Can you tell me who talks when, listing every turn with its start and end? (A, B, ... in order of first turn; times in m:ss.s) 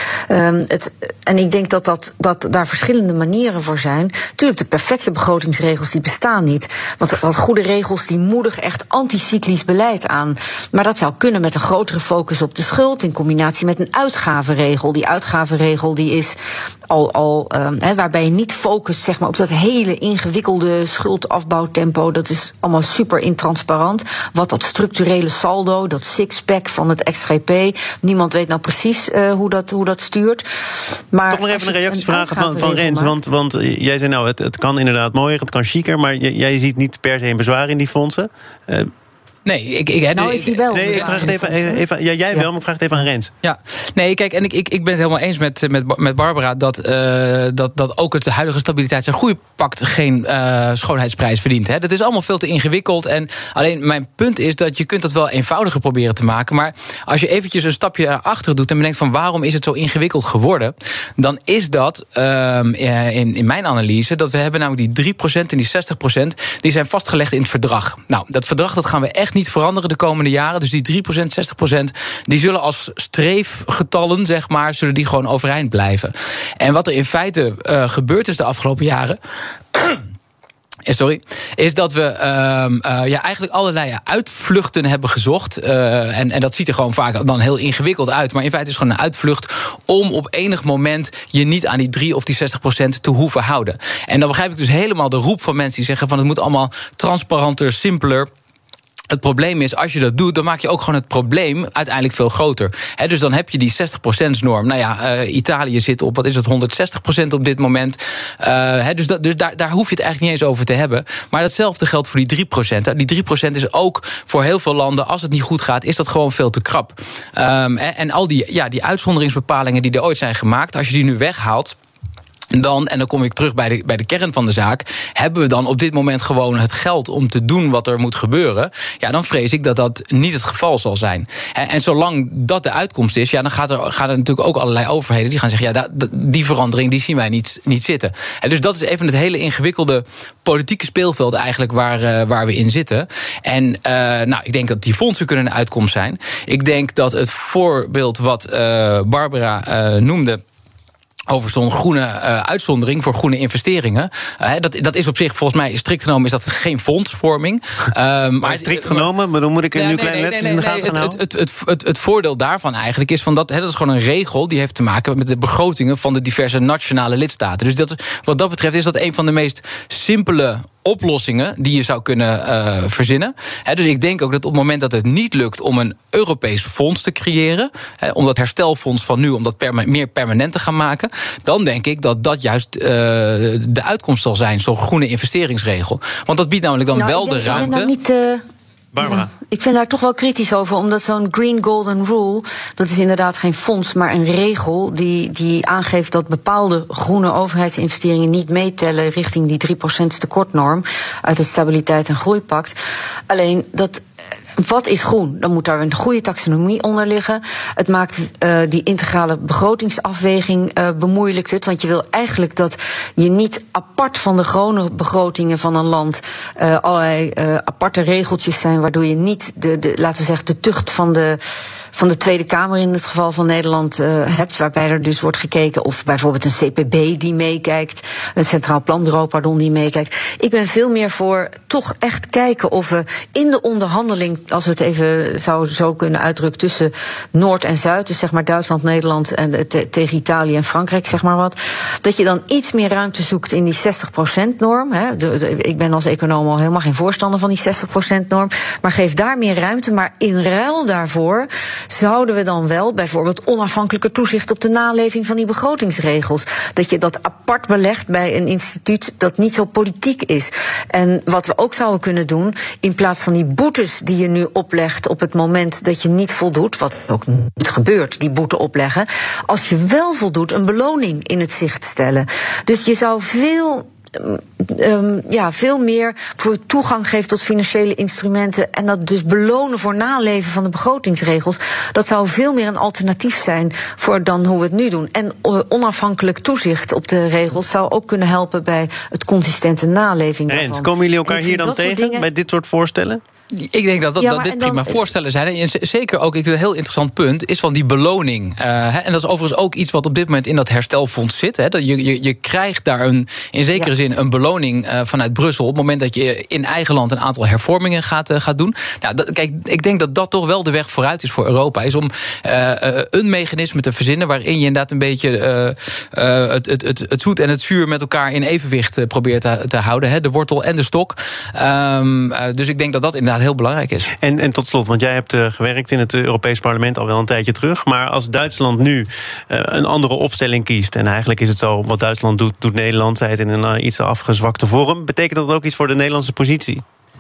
0:00.3-0:16.4 A
0:16.9-0:30.4 A
0:31.1-0:33.1 A
0:31.3-0:38.9 B
0:39.4-0:41.4 C
0:40.1-0:42.5 A
0:40.7-0:43.3 B
0:43.4-1:19.2 C
1:19.7-1:20.0 C
1:20.8-1:38.3 C
1:39.1-2:01.8 C
2:02.5-2:30.4 C
2:31.3-2:39.1 C
2:38.4-2:41.2 B
2:39.7-3:07.9 C
3:06.9-3:08.4 A
3:08.9-3:09.3 B
3:09.0-3:22.8 A
3:23.3-3:24.0 A
3:24.6-3:41.4 A
3:41.9-4:52.2 A
4:50.5-4:53.2 B
4:53.5-5:24.1 C
4:54.2-4:55.0 A
5:24.2-5:36.8 B